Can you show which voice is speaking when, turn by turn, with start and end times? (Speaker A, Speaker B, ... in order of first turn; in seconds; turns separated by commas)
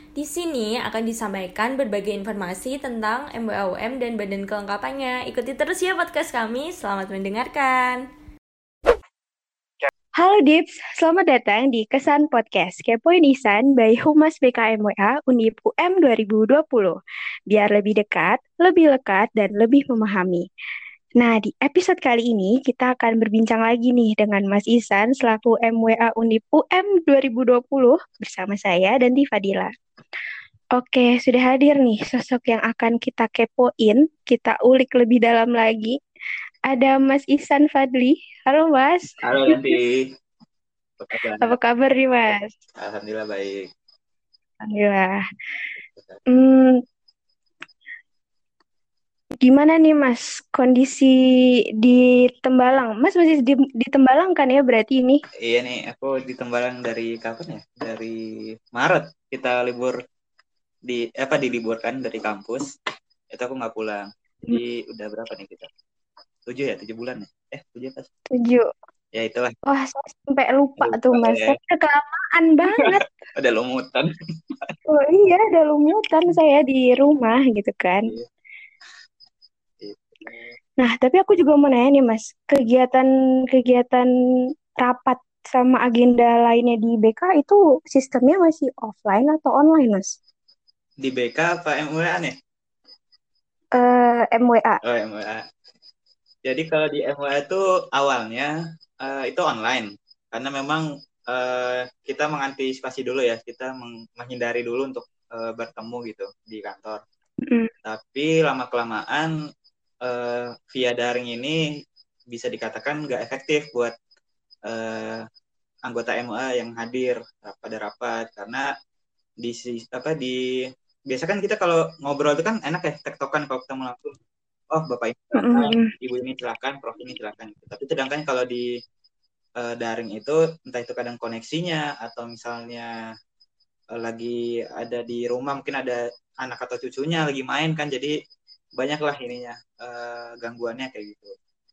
Speaker A: 0.2-8.0, Speaker B: 10.2-17.0, Speaker B: 17.5-20.5, Speaker B: 21.2-29.7, Speaker B: 30.8-36.0, Speaker B: 36.7-39.7, Speaker C: 39.2-40.0, Speaker C: 41.0-41.6, Speaker B: 41.4-42.5, Speaker C: 42.8-43.7, Speaker B: 44.6-45.2, Speaker B: 46.3-46.8, Speaker B: 49.4-51.1, Speaker B: 51.8-55.2, Speaker C: 55.4-58.2, Speaker C: 58.7-60.0, Speaker C: 60.9-62.7, Speaker C: 63.3-65.7, Speaker C: 66.5-68.1, Speaker B: 68.3-68.7, Speaker C: 69.1-69.5, Speaker B: 69.7-73.2, Speaker C: 70.8-71.6, Speaker C: 73.4-74.1, Speaker B: 74.9-78.1, Speaker C: 79.8-80.5, Speaker B: 80.8-84.1, Speaker B: 84.8-90.1, Speaker C: 91.0-92.4, Speaker B: 93.8-94.8, Speaker C: 94.8-95.5, Speaker C: 96.4-98.5, Speaker C: 99.0-107.0, Speaker C: 107.8-109.3, Speaker C: 110.1-111.6, Speaker C: 112.3-113.9, Speaker C: 114.7-115.2, Speaker C: 115.9-118.7, Speaker C: 119.4-120.4, Speaker C: 121.1-124.1, Speaker C: 124.7-128.7, Speaker B: 125.3-125.9, Speaker C: 129.6-132.9, Speaker C: 134.0-138.2, Speaker C: 138.8-141.3